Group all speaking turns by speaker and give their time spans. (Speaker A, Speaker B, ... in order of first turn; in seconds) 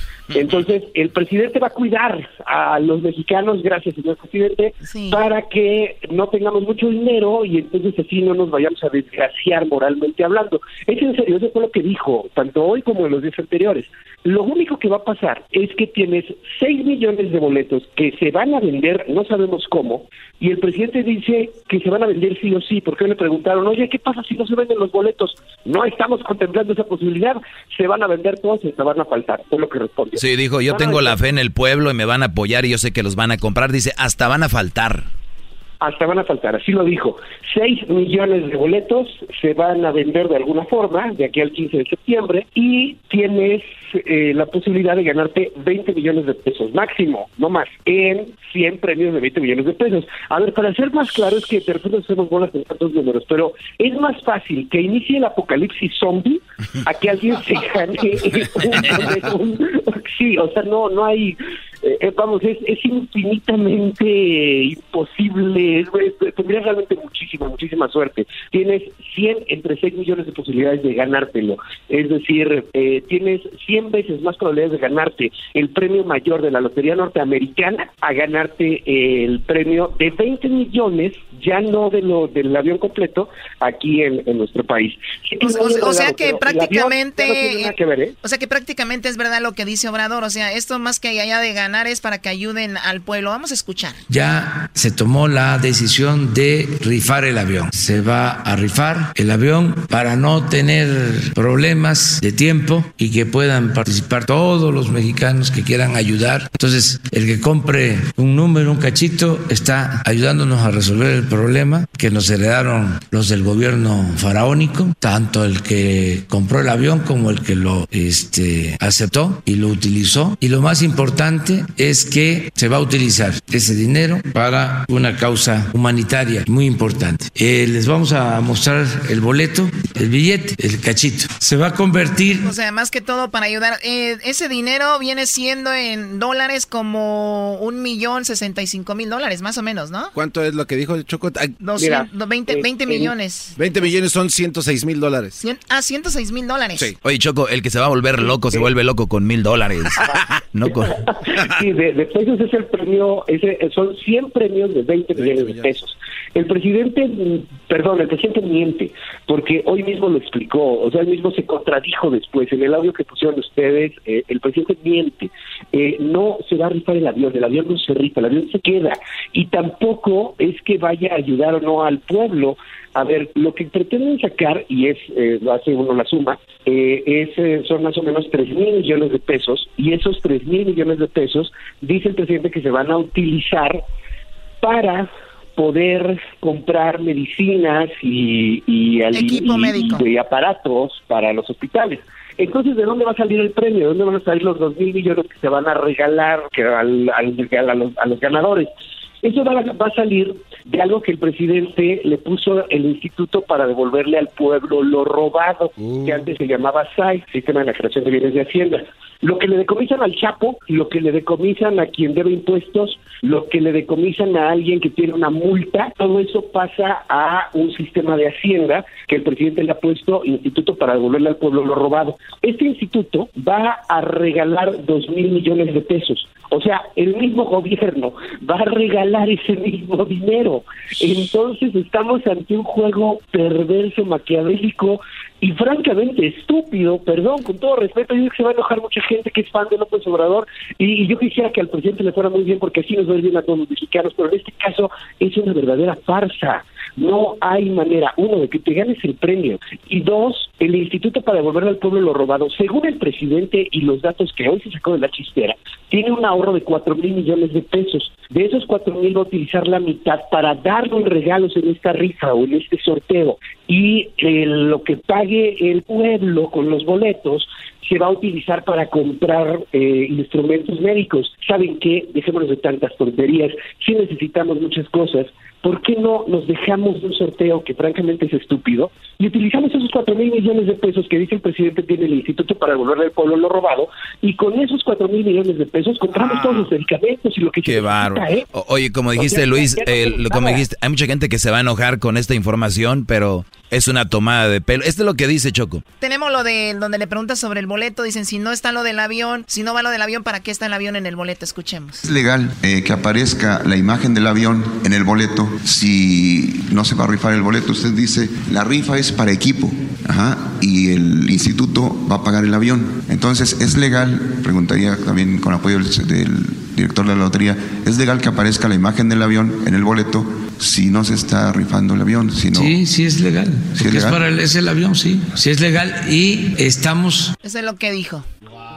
Speaker A: 0.3-31.2, 35.8-88.2, 141.8-143.1, 148.2-148.7, 151.2-183.8, 184.6-198.7, 199.2-288.4, 289.1-290.7
Speaker B: 4.8-5.2, 85.4-94.0, 132.4-140.1, 141.6-143.6, 145.4-146.9, 189.1-190.1, 296.0-302.0, 327.4-328.2
Speaker C: 30.1-35.1, 147.0-150.0, 150.5-150.9, 287.6-295.8
Speaker D: 94.1-132.5, 322.5-327.3
Speaker E: 140.1-141.6, 143.6-145.4, 155.1-155.7
Speaker F: 302.0-322.8, 323.8-324.2